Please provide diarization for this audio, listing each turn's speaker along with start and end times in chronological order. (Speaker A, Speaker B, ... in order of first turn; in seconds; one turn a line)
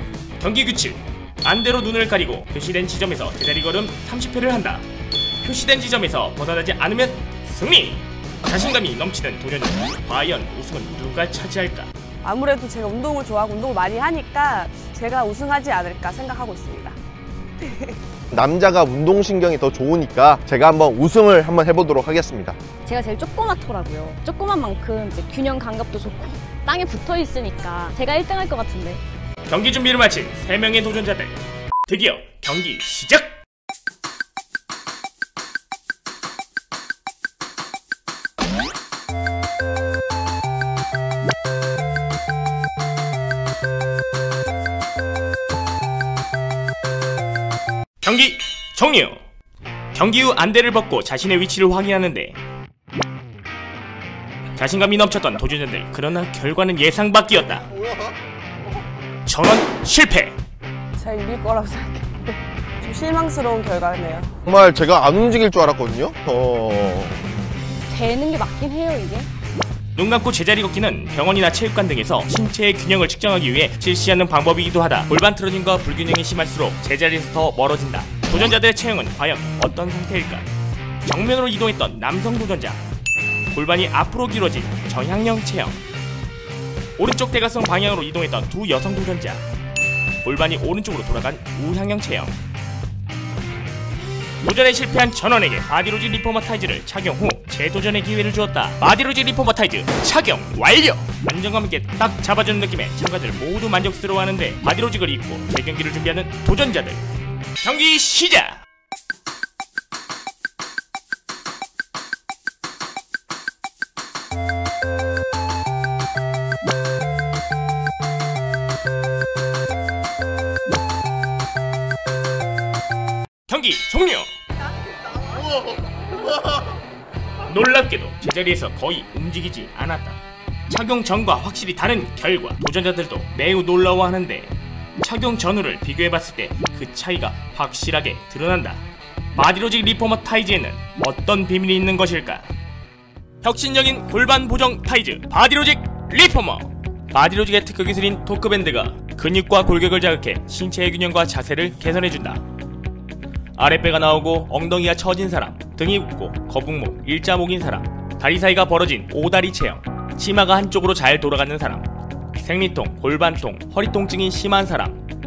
Speaker A: 0.4-4.8
Speaker A: 5.4-11.9
Speaker B: 12.2-17.0
Speaker B: 17.6-18.0
Speaker C: 18.3-22.6
Speaker D: 22.9-29.0
Speaker A: 29.5-33.4
Speaker A: 48.0-49.2
Speaker A: 49.9-52.4
Speaker A: 54.5-57.7
Speaker A: 59.2-60.4
Speaker B: 61.0-64.3
Speaker C: 64.4-67.2
Speaker D: 67.9-69.3
Speaker A: 70.0-80.5
Speaker A: 81.0-82.8
Speaker A: 83.5-85.8
Speaker A: 87.0-89.4
Speaker A: 90.2-92.4
Speaker A: 94.4-107.0
Speaker A: 107.6-108.6
Speaker A: 123.5-124.3
Speaker A: 127.4-138.8
Speaker A: 139.3-142.5
Speaker A: 143.4-152.4
Speaker A: 153.6-165.0